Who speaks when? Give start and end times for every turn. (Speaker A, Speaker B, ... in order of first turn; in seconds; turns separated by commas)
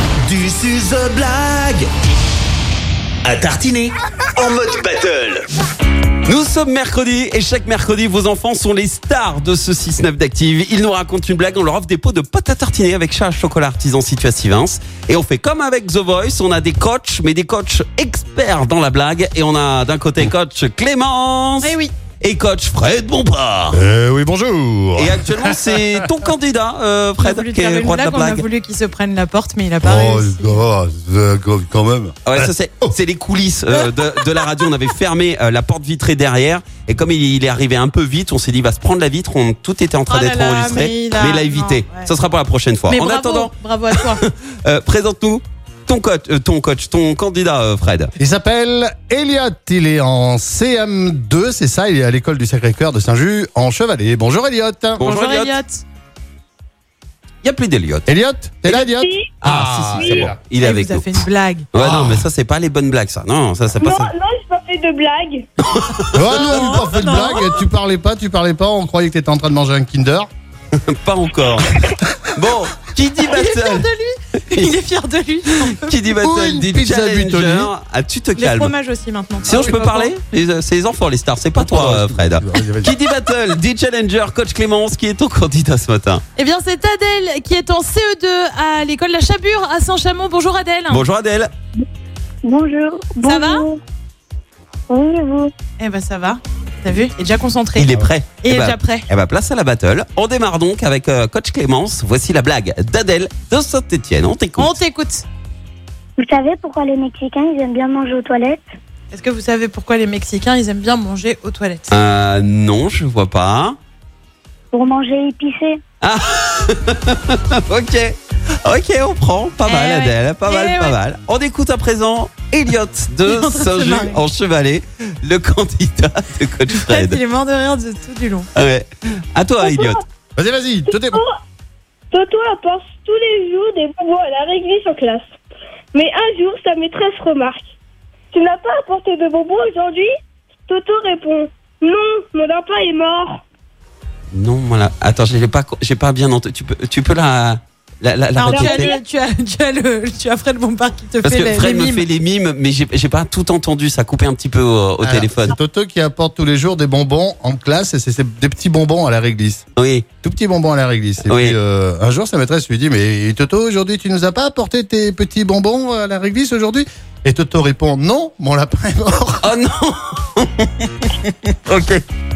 Speaker A: 0.2-1.9, Speaker A: 3.2-5.5, Speaker B: 6.3-23.8, Speaker C: 21.6-21.9, Speaker D: 23.7-26.1, Speaker B: 25.0-28.4, Speaker C: 27.2-30.6, Speaker D: 29.8-32.9, Speaker B: 32.2-48.1, Speaker C: 40.1-42.1, Speaker C: 42.9-44.2, Speaker D: 48.2-55.0, Speaker C: 55.0-55.8, Speaker B: 55.0-55.6, Speaker B: 57.4-58.1, Speaker D: 58.1-60.4, Speaker E: 58.8-59.3, Speaker B: 59.4-64.1, Speaker E: 60.0-60.3, Speaker C: 60.5-61.7, Speaker D: 61.8-62.3, Speaker E: 63.8-65.4, Speaker B: 65.7-67.3, Speaker D: 66.1-70.3, Speaker C: 66.3-67.5, Speaker B: 70.8-73.9, Speaker C: 73.2-76.2, Speaker B: 75.8-78.7, Speaker D: 76.2-77.7, Speaker C: 78.4-80.1, Speaker B: 79.5-86.2, Speaker D: 79.5-79.8, Speaker D: 81.6-83.0, Speaker C: 86.4-91.0, Speaker B: 90.9-91.5, Speaker F: 92.4-93.8, Speaker C: 93.3-93.7, Speaker F: 94.9-95.5, Speaker C: 95.8-99.1, Speaker B: 97.8-104.8, Speaker C: 104.6-105.2, Speaker F: 106.2-108.6, Speaker C: 109.1-112.0, Speaker B: 111.9-113.8, Speaker F: 114.7-115.8, Speaker B: 116.0-127.2, Speaker C: 119.6-121.0, Speaker C: 123.2-124.3, Speaker C: 126.7-128.5, Speaker B: 128.6-130.0, Speaker D: 130.4-131.2, Speaker E: 130.9-131.4, Speaker E: 132.1-135.3, Speaker E: 135.9-137.7, Speaker E: 138.3-140.2, Speaker E: 140.7-143.4, Speaker B: 144.3-148.9, Speaker C: 148.4-152.1, Speaker E: 148.5-149.0, Speaker B: 151.2-155.6, Speaker D: 155.0-159.6, Speaker B: 159.8-160.1, Speaker D: 160.2-169.5, Speaker B: 161.2-161.6, Speaker B: 169.4-172.0